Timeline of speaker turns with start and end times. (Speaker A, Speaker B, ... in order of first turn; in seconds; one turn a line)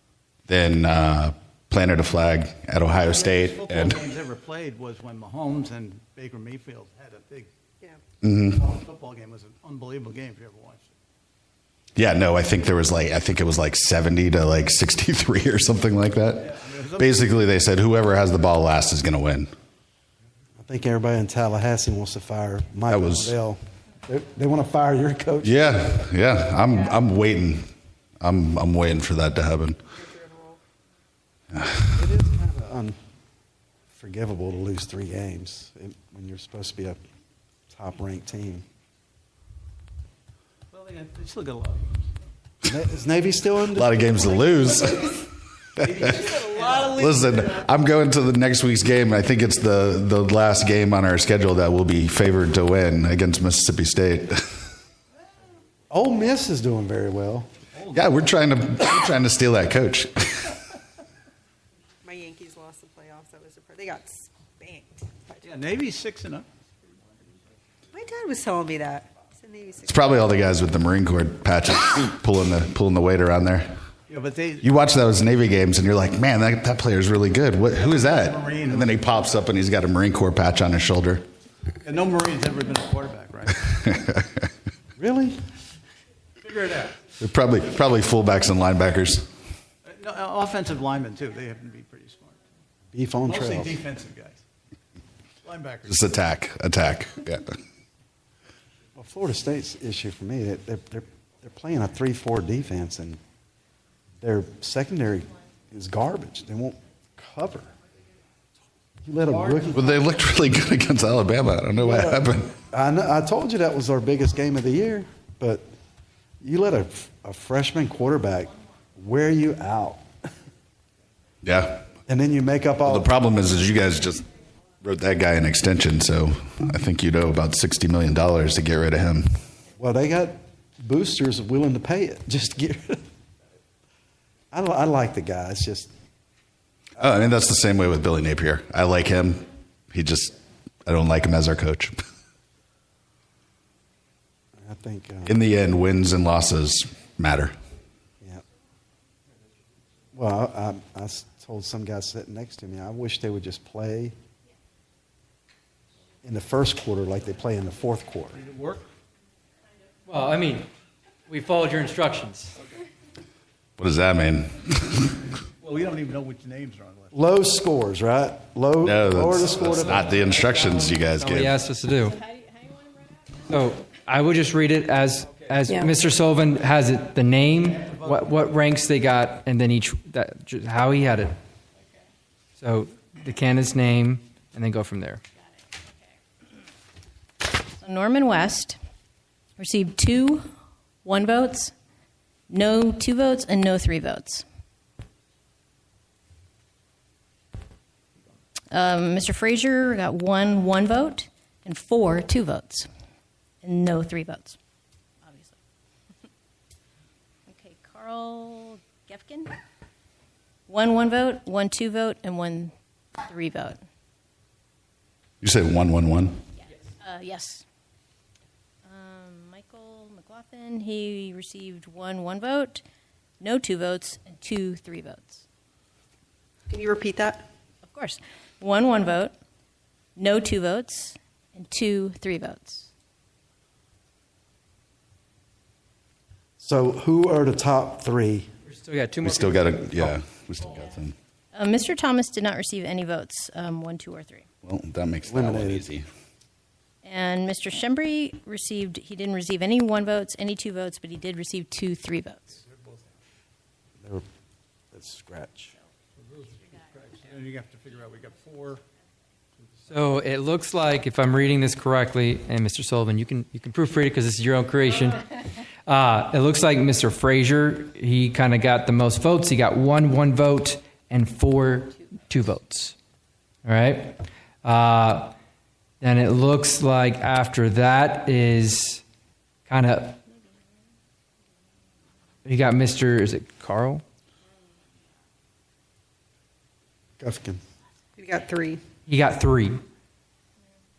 Speaker A: 0.5-4.0
Speaker B: 3.0-7.5
Speaker A: 8.2-8.6
Speaker B: 8.5-10.9
Speaker A: 12.0-19.5
Speaker B: 16.4-17.4
Speaker C: 20.6-25.6
Speaker A: 22.9-23.4
Speaker A: 25.4-27.7
Speaker A: 28.2-29.8
Speaker D: 29.9-30.6
Speaker A: 31.5-31.8
Speaker C: 31.9-33.0
Speaker C: 33.9-37.0
Speaker C: 37.7-38.6
Speaker B: 40.7-42.1
Speaker C: 42.6-44.0
Speaker A: 43.8-54.5
Speaker B: 45.8-47.5
Speaker C: 55.9-57.5
Speaker B: 57.7-58.3
Speaker A: 57.9-60.6
Speaker D: 62.0-65.8
Speaker B: 65.4-66.5
Speaker D: 67.9-70.2
Speaker A: 69.9-73.7
Speaker B: 74.1-74.7
Speaker A: 74.6-81.2
Speaker B: 77.7-79.5
Speaker B: 81.8-83.7
Speaker A: 83.8-84.4
Speaker C: 85.0-85.4
Speaker B: 86.4-87.0
Speaker A: 87.2-89.3
Speaker B: 89.8-92.4
Speaker C: 92.9-93.8
Speaker B: 93.3-94.4
Speaker B: 95.4-96.2
Speaker A: 95.9-97.5
Speaker C: 99.0-103.2
Speaker C: 104.2-107.7
Speaker C: 109.0-109.9
Speaker E: 109.3-109.7
Speaker A: 109.7-112.6
Speaker C: 111.8-115.6
Speaker C: 116.4-120.0
Speaker A: 121.4-121.9
Speaker C: 122.1-123.1
Speaker A: 122.9-124.2
Speaker A: 124.8-129.3
Speaker C: 129.8-133.0
Speaker C: 134.5-135.9
Speaker A: 137.0-142.0
Speaker C: 144.6-145.3
Speaker A: 145.3-147.6
Speaker C: 150.1-154.1
Speaker C: 156.2-158.4
Speaker B: 158.3-158.9
Speaker E: 160.1-160.7
Speaker E: 161.3-162.6
Speaker A: 163.8-165.2
Speaker B: 165.6-167.2
Speaker C: 167.1-170.1
Speaker A: 168.8-171.6
Speaker E: 171.1-172.2
Speaker E: 173.5-181.4
Speaker E: 182.6-185.2
Speaker F: 187.7-188.8
Speaker F: 189.6-190.5
Speaker F: 191.1-191.7
Speaker F: 192.5-194.4
Speaker F: 198.7-202.9
Speaker F: 203.6-204.6
Speaker F: 205.2-205.6
Speaker F: 207.5-209.6
Speaker F: 210.7-213.8
Speaker A: 215.4-216.4
Speaker F: 216.6-217.7
Speaker F: 218.9-222.8
Speaker F: 223.4-225.5
Speaker D: 226.7-227.5
Speaker F: 227.8-229.3
Speaker F: 230.2-232.9
Speaker C: 236.6-238.5
Speaker E: 238.7-239.8
Speaker A: 239.2-241.1
Speaker F: 241.5-244.5
Speaker A: 244.7-246.1
Speaker C: 245.3-245.8
Speaker F: 247.0-252.6
Speaker B: 252.7-253.0
Speaker C: 254.9-255.8
Speaker B: 256.2-258.8
Speaker E: 259.9-272.9
Speaker E: 273.6-275.3
Speaker E: 276.0-279.0
Speaker E: 279.7-280.2
Speaker E: 282.4-284.0
Speaker C: 287.2-287.6
Speaker D: 288.2-288.8
Speaker E: 289.1-289.8